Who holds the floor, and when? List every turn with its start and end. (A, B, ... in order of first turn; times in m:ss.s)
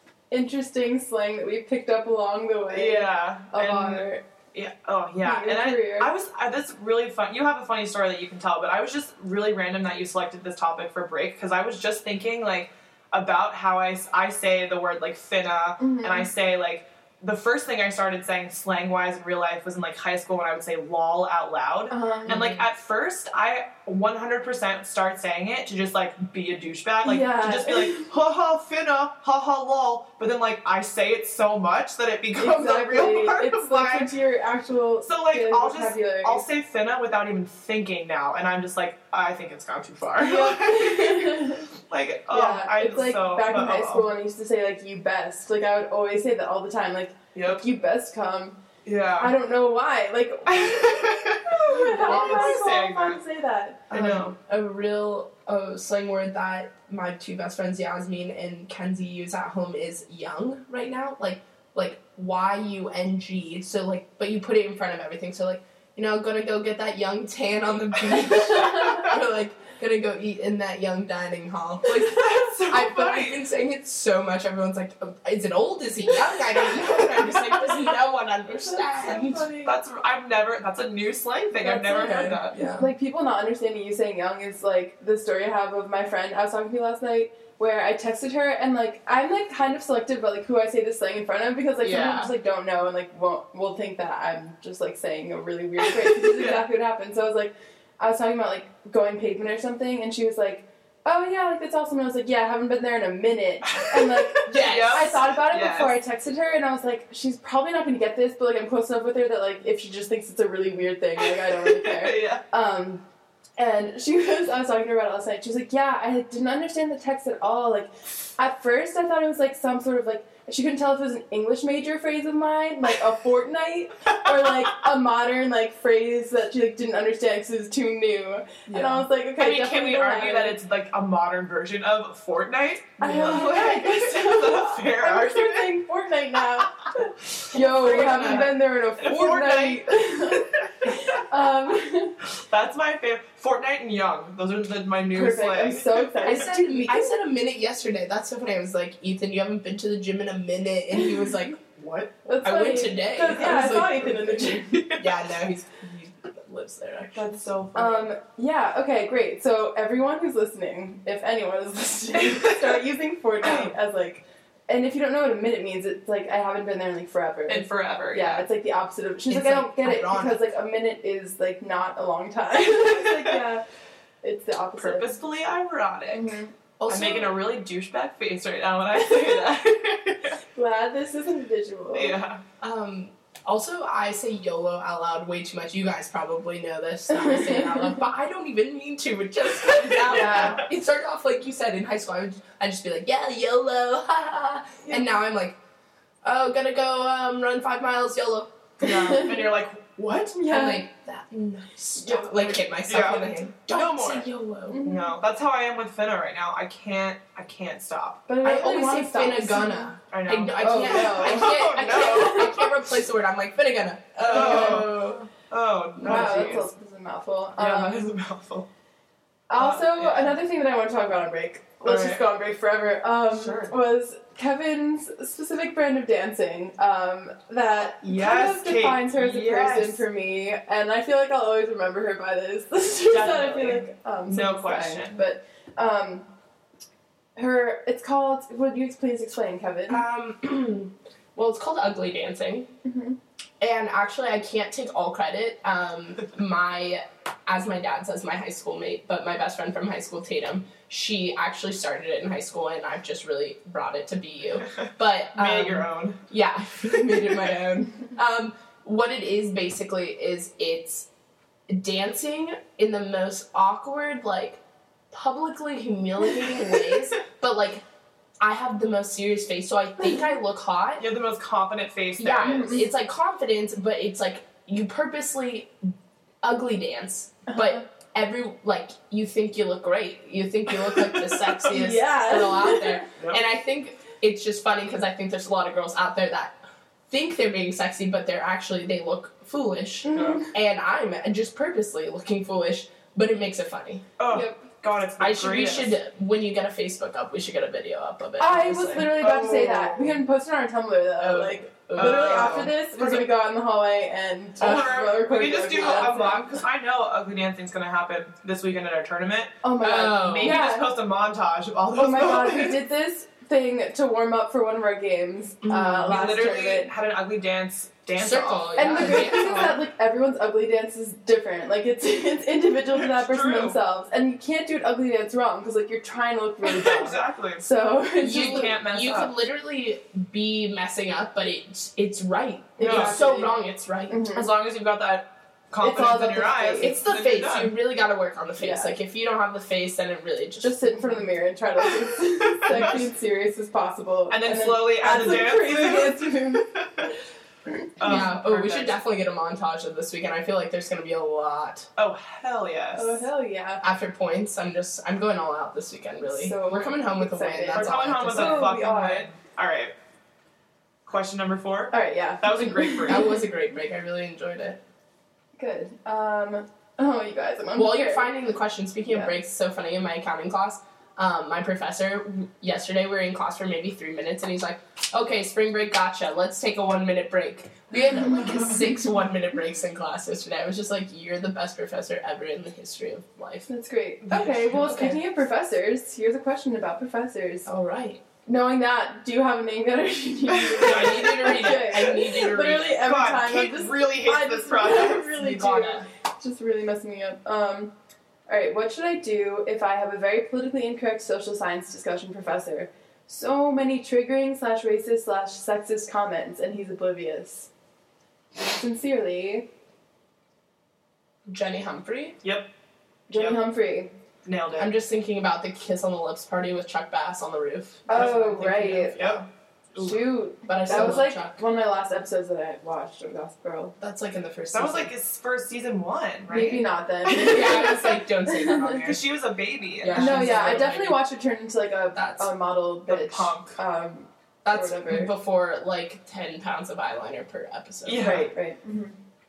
0:00.3-0:04.2 A
0:02.7-0:34.1 B
0:05.2-0:06.1 A
0:15.8-0:16.3 A
0:21.9-0:22.4 A
0:22.3-0:22.6 C
0:27.0-0:28.1 A
0:32.3-0:36.4 A
0:35.0-0:44.1 B
0:40.2-0:41.7 A
0:42.3-0:48.6 A
0:47.3-0:47.6 B
0:48.8-0:49.3 B
0:49.2-0:54.3 A
0:50.5-0:53.2 B
0:52.0-0:52.6 C
0:53.9-0:54.3 B
0:54.0-1:19.6 C
1:11.8-1:13.4 B
1:18.7-1:19.7 A
1:19.6-1:22.6 B
1:21.6-1:53.0 A
1:21.9-1:22.9 C
1:31.8-1:32.3 C
1:36.1-1:36.6 B
1:43.6-1:46.0 B
1:44.5-1:45.2 C
1:51.2-1:52.4 B
1:53.6-2:10.6 A
2:08.7-2:09.0 C
2:09.4-2:15.7 B
2:13.0-2:22.2 A
2:17.5-2:18.5 C
2:17.9-2:21.2 B
2:22.5-2:26.5 B
2:25.1-2:27.0 A
2:26.2-2:31.6 C
2:31.7-2:32.1 B
2:32.2-2:34.9 A
2:32.4-2:37.4 C
2:34.7-2:35.1 B
2:37.1-2:38.1 B
2:37.7-2:53.6 A
2:42.2-2:42.7 B
2:43.4-2:43.7 B
2:47.5-2:48.4 B
2:49.3-2:50.4 C
2:52.7-2:53.4 B
2:54.2-2:55.1 A
2:54.8-3:00.4 B
2:56.1-2:56.5 A
2:56.8-2:57.4 C
2:59.0-2:59.4 A
3:00.5-3:02.2 A
3:01.9-3:02.4 B
3:02.6-3:15.6 C
3:07.1-3:07.8 A
3:09.7-3:10.6 B
3:10.1-3:10.6 A
3:16.2-3:18.5 C
3:18.8-3:20.4 B
3:20.4-3:20.9 A
3:20.5-3:24.9 C
3:22.0-3:22.6 A
3:22.8-3:24.3 B
3:24.7-3:25.2 A
3:24.8-3:28.2 B
3:28.3-3:29.9 A
3:28.4-3:35.3 C
3:30.1-3:32.7 B
3:30.6-3:32.6 A
3:34.2-3:36.7 B
3:34.3-3:34.9 A
3:36.0-3:36.6 C
3:36.0-3:38.0 A
3:37.6-3:38.7 B
3:39.5-3:56.3 A
3:39.6-3:40.4 B
3:41.8-3:42.2 B
3:43.3-3:43.7 B
3:48.0-3:50.0 B
3:53.1-3:55.2 B
3:57.4-4:00.0 A
3:59.9-4:02.7 C
4:02.8-4:03.2 A
4:03.6-4:21.1 C
4:15.3-4:16.2 B
4:21.7-4:24.6 C
4:25.1-4:27.8 C
4:28.4-4:31.1 C
4:31.0-4:32.8 B
4:32.2-4:46.6 C
4:32.4-4:32.8 A
4:37.5-4:37.8 A
4:41.7-4:43.0 A
4:47.1-4:54.1 C
4:50.0-4:50.5 A
4:50.1-4:50.4 B
4:54.2-4:56.0 B
4:54.3-4:54.6 A
4:55.2-4:59.2 C
4:58.4-5:06.6 A
4:59.0-5:00.2 B
5:01.2-5:02.7 C
5:01.9-5:03.3 B
5:04.6-5:12.8 B
5:04.6-5:04.9 C
5:05.8-5:06.4 C
5:09.6-5:10.9 A
5:09.8-5:10.6 C
5:11.9-5:16.9 A
5:15.6-5:16.4 C
5:16.1-5:19.8 B
5:18.2-5:19.8 C
5:18.8-5:28.7 A
5:22.9-5:23.8 B
5:26.6-5:27.6 B
5:28.2-5:29.3 B
5:28.2-5:34.2 C
5:32.8-5:33.5 A
5:32.8-5:33.2 B
5:34.1-5:34.4 A
5:34.3-5:37.7 B
5:35.8-5:36.9 A
5:36.8-5:41.1 C
5:38.6-5:38.9 A
5:40.6-5:46.6 A
5:42.5-5:43.0 B
5:44.3-5:47.1 B
5:48.0-5:49.0 B
5:48.0-5:51.9 C
5:52.0-5:53.2 B
5:53.0-5:53.8 A
5:53.8-5:58.7 C
5:56.3-5:59.3 A
5:57.7-5:59.9 B
6:01.0-6:03.3 B
6:01.9-6:03.3 A
6:03.1-6:04.8 C
6:05.6-6:08.3 A
6:07.8-6:23.7 C
6:23.7-6:27.7 A
6:24.3-6:25.2 C
6:27.6-6:28.2 C
6:28.4-6:37.9 A
6:30.5-6:32.1 B
6:30.8-6:33.1 C
6:32.9-6:35.4 B
6:35.3-6:36.0 C
6:38.5-6:47.7 A
6:48.7-6:49.7 A
6:51.5-6:52.4 C
6:52.4-6:52.7 B
6:53.3-6:54.1 A
6:54.4-6:54.9 B
6:54.8-6:59.5 C
6:58.1-6:59.2 A
6:59.2-6:59.4 B
6:59.9-7:00.3 B
6:59.9-7:03.9 A
7:00.6-7:01.6 C
7:04.0-7:05.1 C
7:04.7-7:07.8 B
7:06.5-7:09.0 A
7:07.3-7:09.2 C
7:09.0-7:10.7 B
7:10.0-7:11.2 C
7:10.1-7:15.3 A
7:12.1-7:12.5 C
7:13.1-7:13.8 B
7:14.6-7:18.5 C
7:18.0-7:18.5 B
7:18.2-7:19.2 A